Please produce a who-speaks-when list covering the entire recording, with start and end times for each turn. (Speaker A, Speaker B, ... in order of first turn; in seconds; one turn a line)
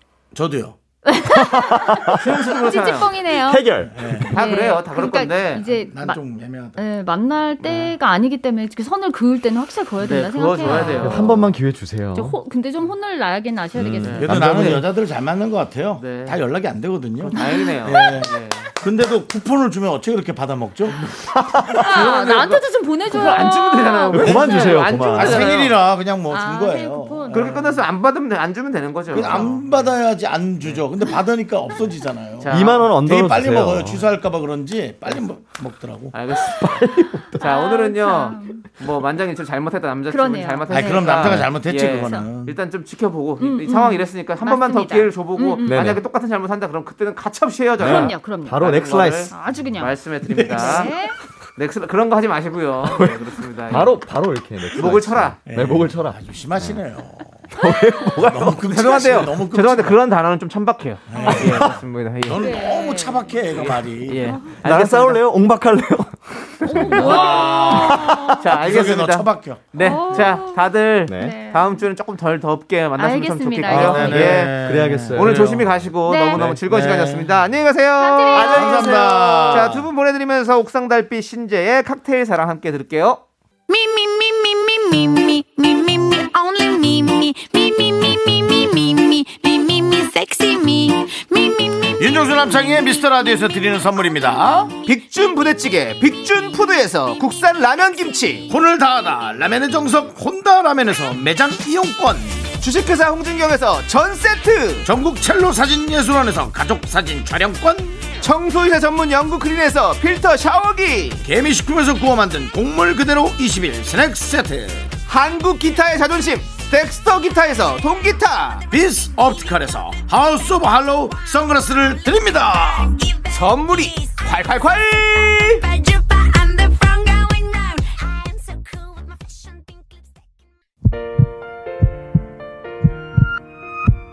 Speaker A: 0.3-0.8
Speaker B: 1.0-6.2
Speaker C: 1.2-2.2
Speaker D: 2.1-3.1
Speaker C: 3.3-4.3
Speaker A: 3.9-4.3
Speaker D: 4.3-5.6
Speaker A: 5.6-6.8
Speaker B: 6.8-11.5
Speaker D: 7.6-7.9
Speaker D: 10.0-11.5
Speaker C: 10.6-12.4
Speaker B: 12.1-14.3
Speaker C: 13.8-14.8
Speaker D: 14.0-14.8
Speaker A: 14.2-21.0
Speaker D: 16.0-16.4
Speaker D: 17.2-18.7
Speaker B: 17.4-18.3
Speaker C: 21.1-21.9
Speaker B: 21.7-25.4
Speaker D: 21.7-25.8
Speaker C: 24.1-25.6
Speaker A: 25.0-27.6
Speaker B: 26.3-27.8
Speaker D: 27.3-29.9
Speaker B: 29.1-29.6
Speaker A: 29.1-36.1
Speaker D: 32.4-32.9
Speaker C: 32.5-34.0
Speaker D: 36.1-36.8
Speaker C: 36.3-37.4
Speaker B: 37.3-38.7
Speaker D: 37.4-50.9
Speaker B: 40.1-42.2
Speaker A: 40.7-42.6
Speaker C: 41.2-41.5
Speaker B: 43.4-45.9
Speaker C: 45.6-46.0
Speaker B: 47.8-48.6
Speaker C: 47.8-49.3
Speaker B: 49.3-51.2
Speaker A: 50.4-50.8
Speaker D: 51.5-54.0
Speaker C: 53.7-56.8
Speaker D: 54.7-55.4
Speaker A: 55.5-57.5
Speaker C: 57.5-58.6
Speaker B: 57.8-58.1
Speaker A: 58.2-60.0
Speaker D: 58.7-62.5
Speaker A: 61.1-64.3
Speaker B: 61.2-61.5
Speaker B: 62.4-63.3
Speaker D: 63.5-65.2
Speaker B: 64.2-64.6
Speaker C: 64.6-67.2
Speaker B: 66.6-68.5
Speaker D: 66.9-74.5
Speaker A: 66.9-70.0
Speaker B: 69.8-71.8
Speaker C: 71.1-71.4
Speaker B: 73.0-74.3
Speaker C: 73.7-75.8
Speaker A: 73.9-75.6
Speaker D: 75.1-79.0
Speaker B: 76.0-76.5
Speaker A: 76.4-77.3
Speaker B: 78.0-79.0
Speaker C: 78.3-79.7
Speaker A: 78.5-79.8
Speaker D: 79.5-83.2
Speaker E: 83.7-92.8
Speaker A: 92.0-94.7
Speaker D: 94.8-98.5
Speaker A: 98.5-102.5
Speaker D: 102.6-104.9
Speaker A: 104.8-108.0
Speaker D: 108.2-111.2
Speaker A: 111.2-114.9
Speaker D: 115.1-118.6
Speaker A: 118.7-123.0
Speaker E: 122.7-130.5
Speaker D: 123.3-125.7